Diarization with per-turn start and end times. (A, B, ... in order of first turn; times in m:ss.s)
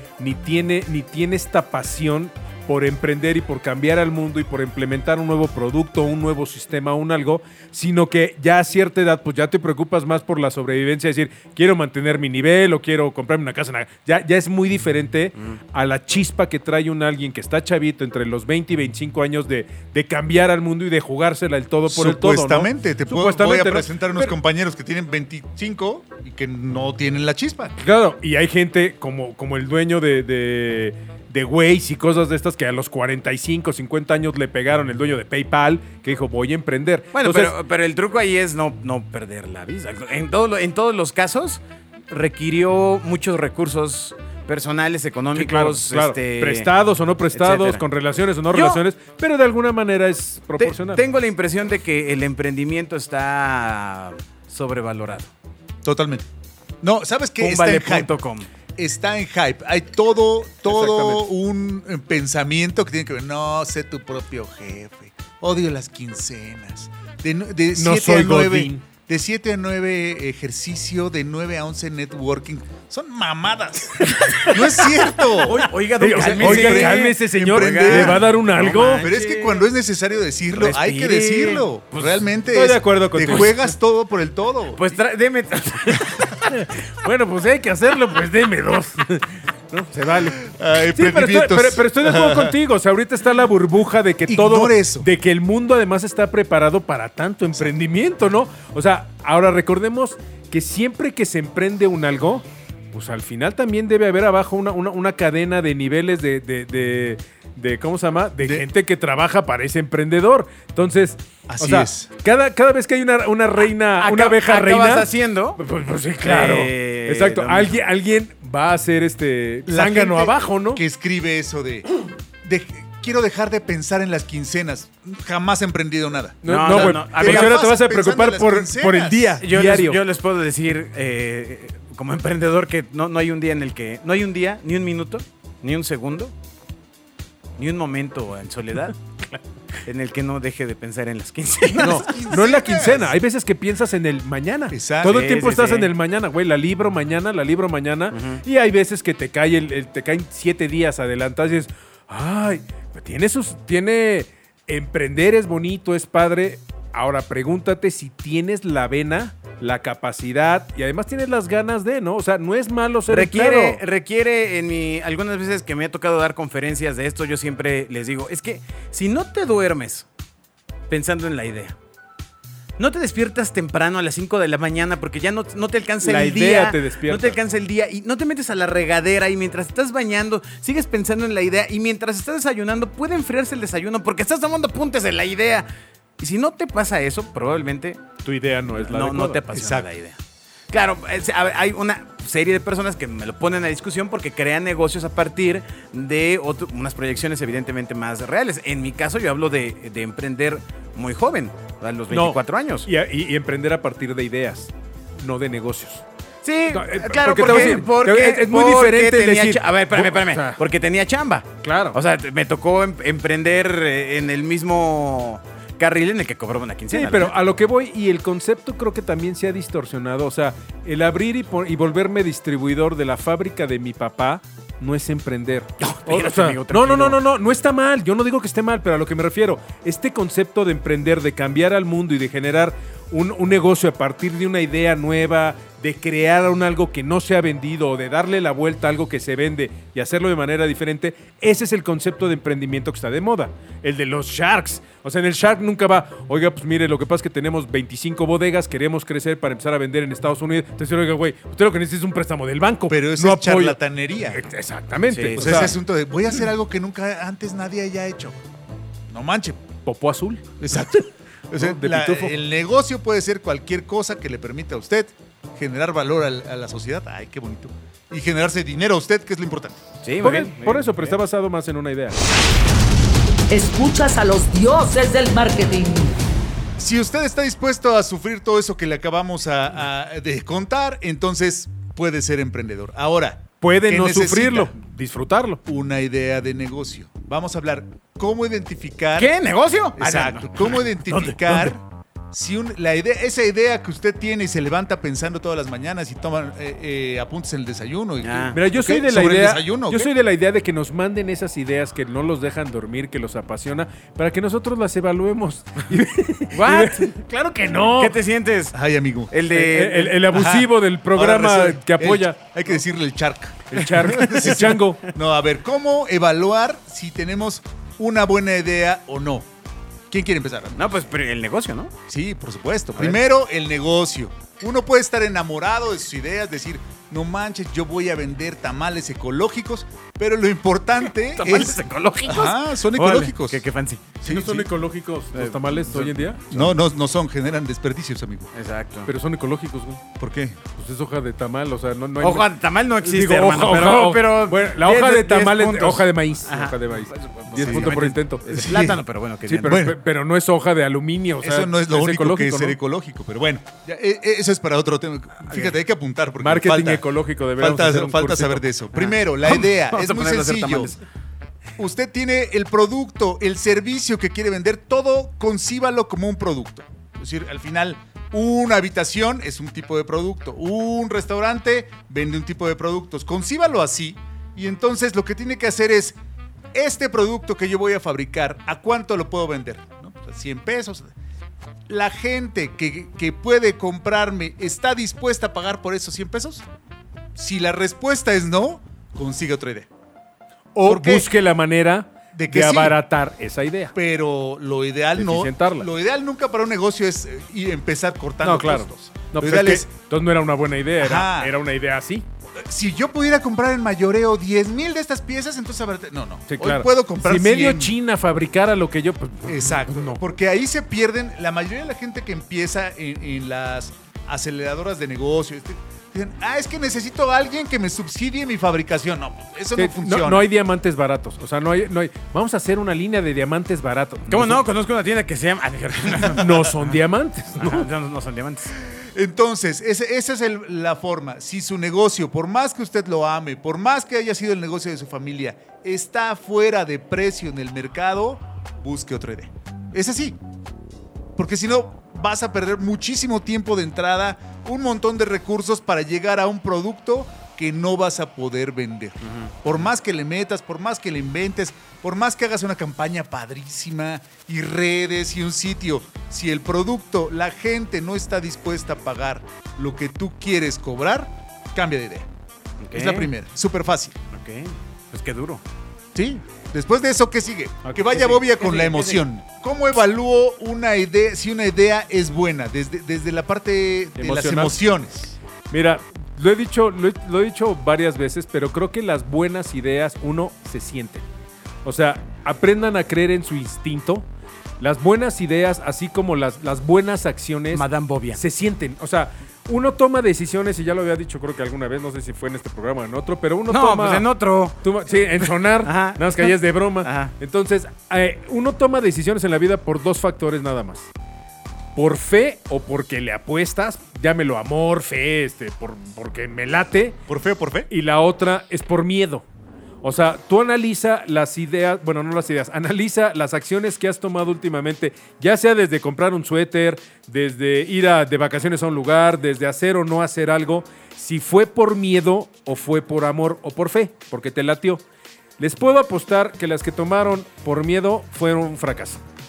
0:00.2-0:24.3 A
0:21.9-0:27.7 B
0:27.8-0:37.5 A
0:37.1-0:46.7 C
0:45.3-0:51.0 A
0:47.3-0:47.8 C
0:48.5-0:48.8 C
0:50.6-0:55.3 C
0:55.8-0:56.3 B
0:56.8-0:58.1 B
0:57.4-0:58.5 C
0:58.8-1:18.3 B
1:00.7-1:01.2 A
1:07.7-1:08.8 A
1:14.1-1:14.8 A
1:14.2-1:19.7 C
1:15.5-1:19.0 A
1:18.8-1:25.0 B
1:20.5-1:22.2 C
1:22.5-1:23.7 A
1:24.8-1:26.5 C
1:26.5-1:55.1 A
1:30.4-1:32.5 B
1:34.3-1:35.1 B
1:48.4-1:48.6 B
1:51.5-1:52.1 B
1:54.0-1:55.6 C
1:55.6-2:00.8 A
1:56.2-1:57.8 C
1:59.7-2:01.9 B
2:02.4-2:09.4 B
2:06.4-2:10.0 A
2:06.4-2:07.6 C
2:09.4-2:16.3 C
2:17.6-2:19.0 C
2:19.8-2:22.2 C
2:21.7-2:23.1 B
2:21.8-2:43.8 A
2:24.7-2:25.2 B
2:25.0-2:25.9 C
2:28.1-2:28.4 C
2:43.1-2:50.0 C
2:50.9-2:51.8 C
2:52.8-3:05.7 C
2:56.0-2:57.4 A
3:06.2-3:08.0 C
3:08.2-3:09.5 A
3:08.7-3:10.2 C
3:09.5-3:09.8 B
3:10.7-3:22.9 C
3:22.1-3:26.0 A
3:26.4-3:37.3 C
3:26.7-3:30.6 A
3:31.6-3:32.0 A
3:36.9-4:15.7 A
3:45.8-3:47.2 C
4:12.9-4:14.5 B
4:15.1-4:15.8 C
4:15.4-4:18.4 B
4:19.1-4:19.6 B
4:19.8-4:20.4 A
4:20.6-4:29.8 B
4:21.5-4:22.4 A
4:30.0-4:31.2 C
4:30.2-4:32.2 A
4:33.5-4:36.2 D
4:36.8-4:44.7 B
4:43.6-4:45.6 A
4:45.6-4:49.3 B
4:49.2-4:50.9 C
4:50.0-5:00.1 B
4:51.1-4:51.7 A
4:58.2-4:58.6 C
4:58.5-5:08.2 A
5:06.5-5:07.1 C
5:07.9-5:08.8 C
5:08.7-5:09.3 B
5:09.3-5:10.2 C
5:09.5-5:12.4 A
5:10.3-5:19.5 B
5:13.7-5:15.0 A
5:20.1-5:20.8 B
5:20.8-5:21.9 C
5:22.1-5:33.6 B
5:31.2-5:34.1 C
5:34.2-5:34.7 B
5:34.2-5:36.7 A
5:35.3-5:36.3 C
5:36.5-5:38.5 B
5:38.5-5:39.1 C
5:39.0-5:40.0 A
5:40.2-5:40.6 B
5:40.7-5:42.5 A
5:42.2-5:49.9 C
5:43.0-5:48.7 A
5:47.6-5:48.0 B
5:48.5-5:49.0 B
5:49.4-5:52.8 A
5:49.6-5:50.0 B
5:51.4-6:00.9 B
5:56.4-5:58.7 A
5:58.9-6:01.0 C
6:01.8-6:16.2 B
6:16.7-6:21.1 B
6:21.9-6:26.6 B
6:27.3-6:29.9 B
6:30.7-6:31.3 B
6:30.8-6:33.9 A
6:32.3-6:33.0 B
6:33.9-6:39.9 B
6:35.2-6:35.9 A
6:38.4-6:42.2 A
6:41.0-6:41.5 B
6:42.6-6:47.9 B
6:46.5-6:50.2 A
6:49.4-7:00.4 B
6:59.8-7:04.6 A
7:04.3-7:06.9 C
7:06.2-7:07.9 A
7:07.6-7:08.7 C
7:08.9-7:20.4 B
7:21.4-7:42.3 B
7:29.2-7:29.5 C
7:42.8-7:43.3 C
7:42.9-7:44.2 B
7:44.3-7:45.6 C
7:46.1-7:55.4 B
7:47.8-7:48.4 A
7:48.4-7:49.2 C
7:54.2-7:54.8 A
7:55.7-8:01.2 A
8:01.8-8:04.2 A
8:04.8-8:14.2 A
8:07.7-8:08.4 C
8:13.7-8:14.8 C
8:14.8-8:21.1 A
8:15.4-8:17.3 C
8:21.9-8:27.2 A
8:27.3-8:27.9 B
8:27.9-8:29.4 A
8:30.0-8:45.0 A
8:45.6-8:49.2 A